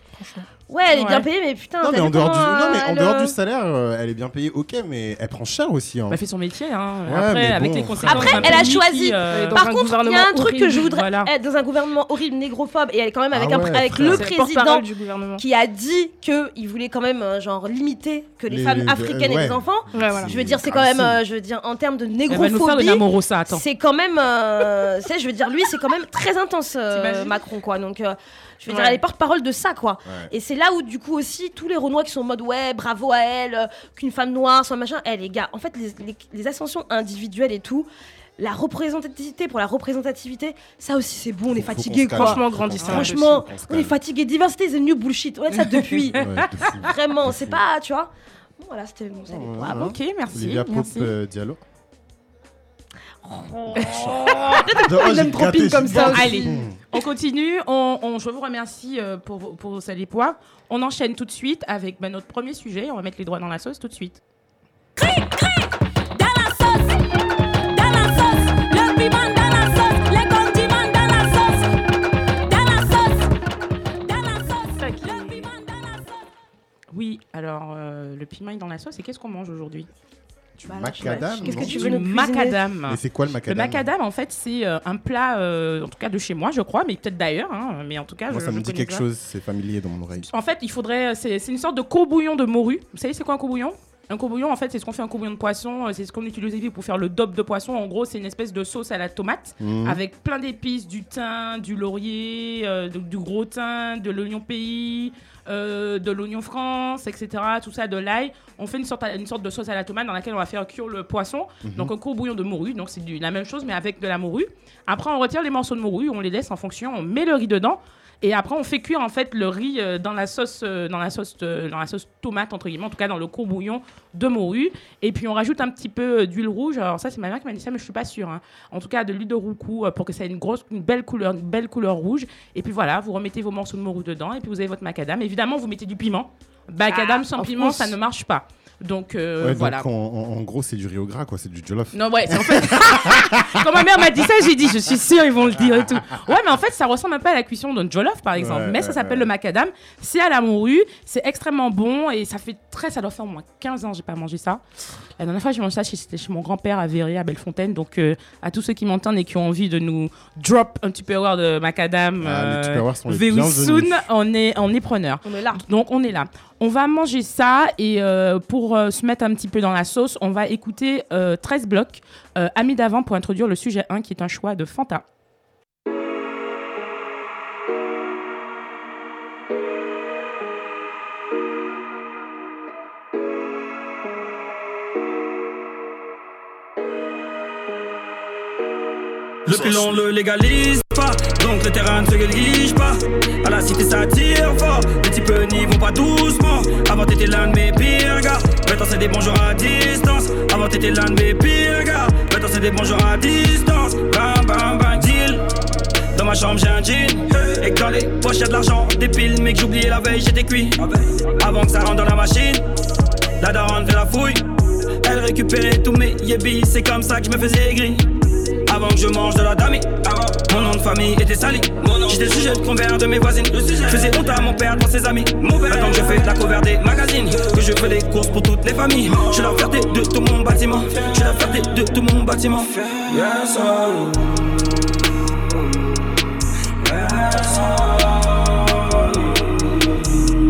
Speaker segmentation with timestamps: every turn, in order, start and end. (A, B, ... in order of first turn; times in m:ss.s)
0:00.2-0:00.5 A
0:00.7-0:03.4 B
0:00.9-0:01.3 C
0:01.8-0:06.2 D
0:06.1-0:09.6 C
0:07.1-0:08.8 D
0:08.1-0:49.9 B
0:09.3-0:10.8 A
0:10.8-0:11.3 C
0:13.3-0:14.2 D
0:14.0-0:15.4 A
0:18.5-0:21.2 D
0:19.9-0:20.3 A
0:22.3-0:23.6 C
0:26.9-0:27.3 C
0:28.7-0:29.0 A
0:41.5-0:43.9 D
0:42.1-0:43.4 A
0:42.8-0:43.1 C
0:46.2-0:47.6 D
0:49.3-0:51.6 D
0:49.7-0:51.1 C
0:53.2-0:56.6 B
0:54.1-0:54.7 C
0:54.8-0:56.8 D
0:55.9-1:04.2 C
1:05.0-1:07.0 E
1:07.7-1:11.7 E
1:12.3-1:13.3 E
1:14.0-1:16.2 E
1:14.8-1:15.5 A
1:16.9-1:19.9 C
1:20.6-1:22.0 D
1:20.6-1:22.6 B
1:21.4-1:29.0 C
1:22.9-1:23.9 D
1:28.3-1:30.3 D
1:30.3-2:19.9 C
1:39.6-1:40.0 D
1:51.6-1:51.9 D
2:16.9-2:17.9 B
2:19.4-2:23.6 D
2:21.9-2:34.6 C
2:28.3-2:29.3 D
2:35.2-2:55.0 C
2:42.2-2:44.1 D
2:45.2-2:45.6 B
3:09.4-3:25.4 F
3:26.1-3:32.6 F
3:33.4-3:34.4 F
3:35.0-3:38.1 F
3:38.6-3:54.3 F
3:56.8-3:59.4 F